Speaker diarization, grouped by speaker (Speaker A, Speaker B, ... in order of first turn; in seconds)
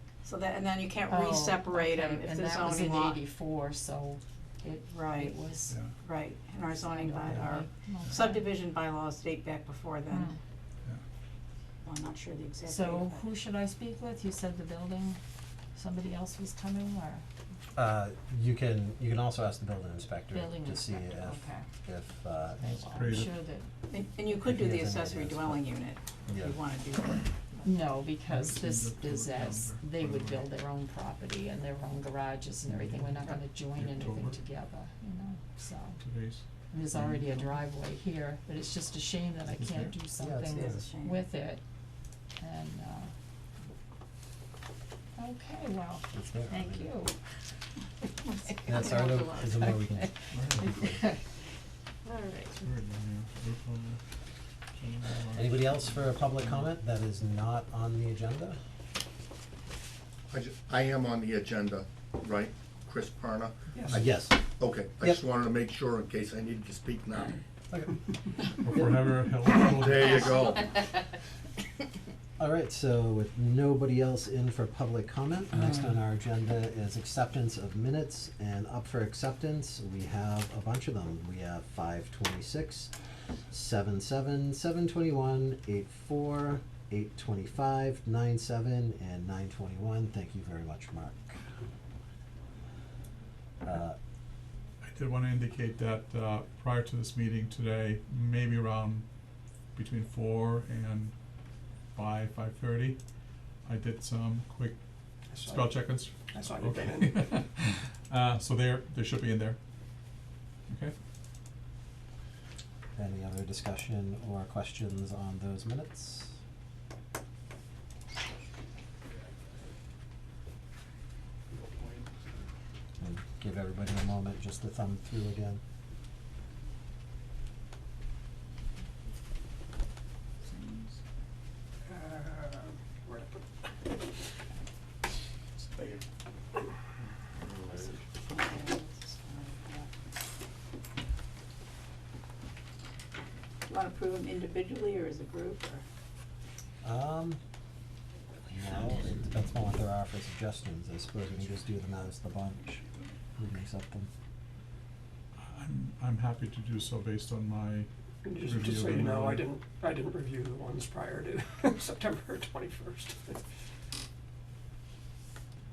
Speaker A: 0.2-3.2, 4.9-5.3, 6.0-10.3, 11.8-13.2, 23.9-27.6, 40.5-41.2, 48.5-49.4, 137.7-139.9, 143.7-145.8
Speaker B: 1.1-5.8, 6.8-8.5, 10.1-10.4, 12.7-15.2, 15.7-17.2, 20.3-21.7, 22.6-23.7, 27.6-36.0, 36.7-41.6, 42.4-43.1, 45.2-47.1, 48.4-49.0, 50.6-51.2, 52.0-52.6, 130.5-130.9
Speaker C: 5.7-5.9, 22.9-23.3, 28.3-30.5, 32.7-34.4, 36.0-37.2, 39.5-39.9, 50.3-50.7, 52.6-54.0, 54.7-56.7, 68.6-70.5, 94.8-99.1, 99.7-101.1, 101.9-103.0, 103.6-104.8, 105.3-109.6, 110.7-110.9, 155.3-159.5
Speaker D: 17.7-22.8, 24.4-25.6, 26.2-26.6, 40.2-40.8, 46.1-46.9, 48.6-51.1, 55.3-58.6, 63.9-64.5, 67.7-68.0, 72.4-82.9, 83.5-91.4, 93.6-94.0, 113.0-116.3, 123.0-125.6, 146.8-147.4, 148.5-152.8, 153.4-154.1
Speaker E: 60.3-63.9, 64.6-67.4, 69.7-70.8
Speaker F: 63.7-64.0, 105.3-107.4, 131.9-133.3, 135.7-136.0, 158.2-163.4